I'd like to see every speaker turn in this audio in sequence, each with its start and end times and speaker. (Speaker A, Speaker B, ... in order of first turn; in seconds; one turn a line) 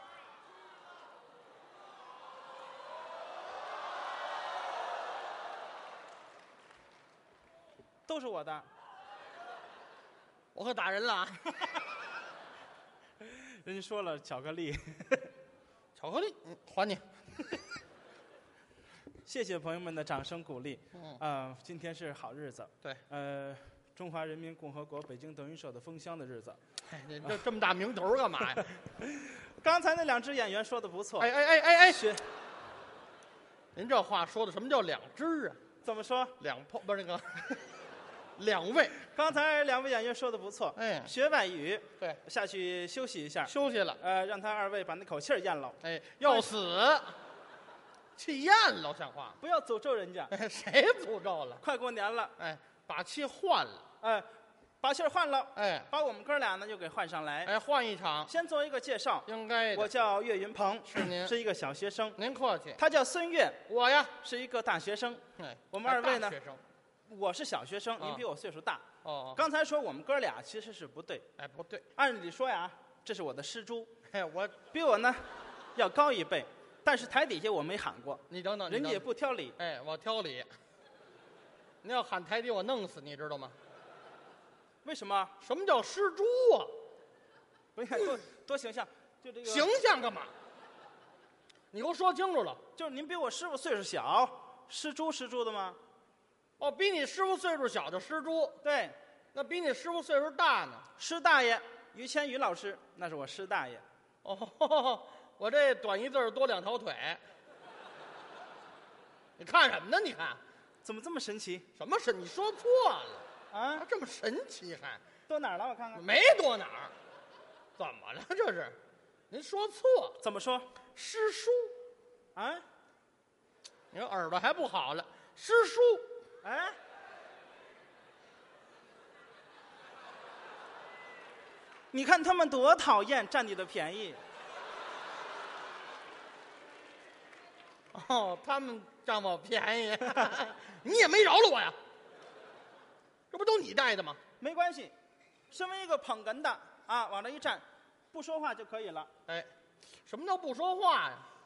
Speaker A: 8.1-8.7
Speaker B: 10.6-11.8
Speaker A: 13.2-15.3
Speaker B: 16.0-17.1
Speaker A: 19.3-26.6
Speaker B: 20.9-21.2
Speaker B: 26.9-28.7
Speaker A: 29.0-31.3
Speaker B: 31.2-32.0
Speaker A: 31.9-32.2
Speaker B: 33.8-35.6
Speaker A: 35.8-36.4
Speaker B: 36.4-37.7
Speaker B: 38.4-39.0
Speaker A: 39.0-46.5
Speaker B: 40.8-41.1
Speaker B: 43.5-44.0
Speaker B: 45.8-47.2
Speaker B: 48.2-49.4
Speaker A: 49.4-50.3
Speaker B: 50.3-51.6
Speaker A: 51.6-52.3
Speaker B: 52.4-53.8
Speaker A: 54.0-54.3
Speaker A: 54.8-57.5
Speaker B: 55.5-55.9
Speaker B: 57.5-58.3
Speaker A: 58.3-62.2
Speaker B: 59.3-59.9
Speaker B: 60.9-61.3
Speaker B: 62.2-62.8
Speaker A: 62.8-63.6
Speaker B: 63.7-64.1
Speaker A: 64.2-66.4
Speaker B: 65.4-66.6
Speaker A: 67.1-71.3
Speaker B: 68.0-68.2
Speaker B: 69.0-69.4
Speaker B: 71.4-71.8
Speaker A: 72.0-73.9
Speaker B: 74.1-74.6
Speaker A: 74.7-75.2
Speaker A: 75.8-79.6
Speaker B: 78.3-79.1
Speaker B: 79.6-80.5
Speaker B: 81.8-83.6
Speaker A: 84.8-85.3
Speaker B: 85.4-86.8
Speaker A: 87.8-89.7
Speaker B: 89.5-90.3
Speaker B: 91.7-92.6
Speaker A: 92.8-95.8
Speaker B: 96.6-98.6
Speaker A: 98.6-99.0
Speaker B: 99.3-100.9
Speaker A: 101.0-103.8
Speaker B: 104.2-107.2
Speaker B: 109.4-110.4
Speaker A: 110.8-111.7
Speaker B: 111.8-113.3
Speaker A: 113.5-113.9
Speaker B: 113.8-115.0
Speaker A: 115.3-116.0
Speaker B: 116.0-116.9
Speaker B: 117.8-118.8
Speaker B: 119.3-120.2
Speaker A: 120.2-120.7
Speaker B: 121.0-121.7
Speaker A: 122.3-122.6
Speaker B: 123.9-126.1
Speaker A: 126.4-126.8
Speaker A: 131.9-134.2
Speaker B: 137.9-141.8
Speaker B: 143.3-144.2
Speaker A: 144.4-144.9
Speaker A: 145.5-149.1
Speaker B: 150.1-151.3